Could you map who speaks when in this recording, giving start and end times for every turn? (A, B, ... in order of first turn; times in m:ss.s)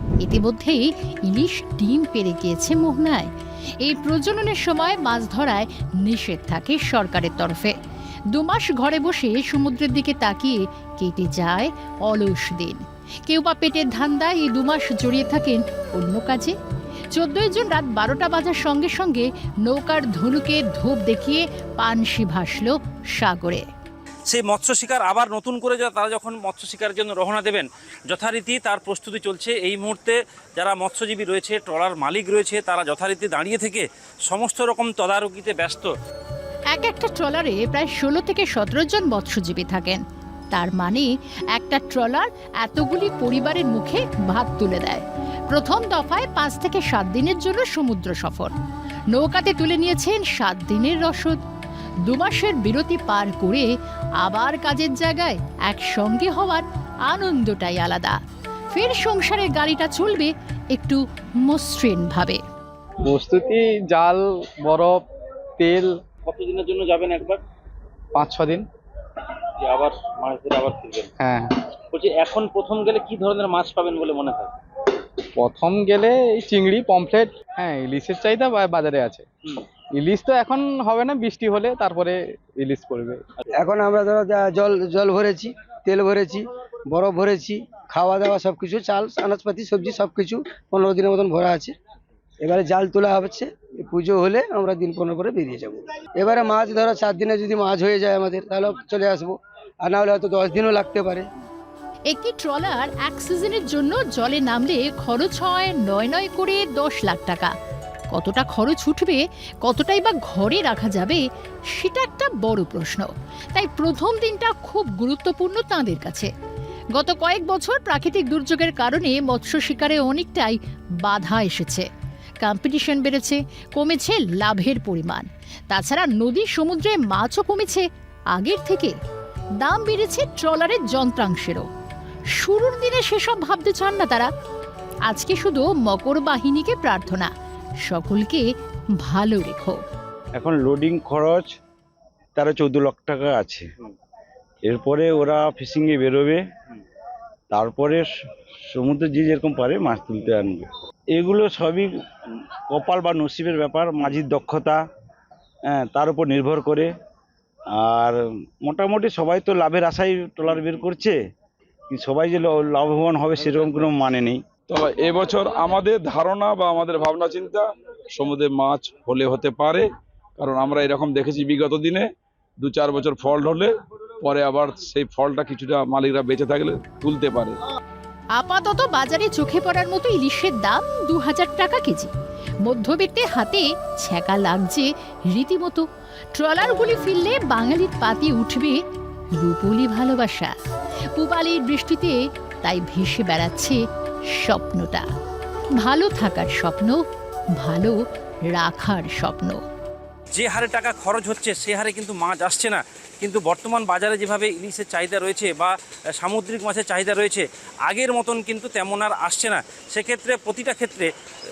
0:00.2-0:07.7 A
0:08.3-0:16.6 A
0:17.1-0:23.6 A
0:24.3-0:35.9 B
0:36.7-0:40.0 A
0:40.5-0:48.5 A
0:49.1-0:51.4 A
0:52.0-0:58.2 A
0:58.7-1:02.4 A
1:03.0-1:05.0 C
1:05.6-1:05.9 C
1:06.3-1:07.4 B
1:08.1-1:08.6 C
1:09.6-1:11.0 B
1:11.2-1:11.7 C
1:11.9-1:14.4 B
1:15.4-1:19.2 C
1:19.9-1:23.2 C
1:23.6-1:31.7 D
1:32.4-1:41.3 D
1:42.1-1:47.5 A
1:48.1-1:56.3 A
1:57.0-2:01.8 A
2:02.4-2:08.9 A
2:09.6-2:11.7 A
2:12.4-2:14.3 A
2:15.1-2:17.3 A
2:17.8-2:19.8 A
2:20.3-2:21.5 E
2:22.4-2:23.7 E
2:24.6-2:26.4 E
2:27.5-2:28.1 E
2:28.7-2:31.9 E
2:32.7-2:34.8 E
2:35.7-2:36.9 E
2:37.7-2:41.2 E
2:41.9-2:44.4 E
2:44.7-2:49.8 F
2:50.4-2:52.1 F
2:52.6-2:57.6 F
2:58.4-3:02.1 A
3:02.6-3:08.8 A
3:09.4-3:10.5 A
3:11.1-3:13.8 A
3:14.3-3:15.0 A
3:15.8-3:19.6 A
3:20.3-3:31.1 B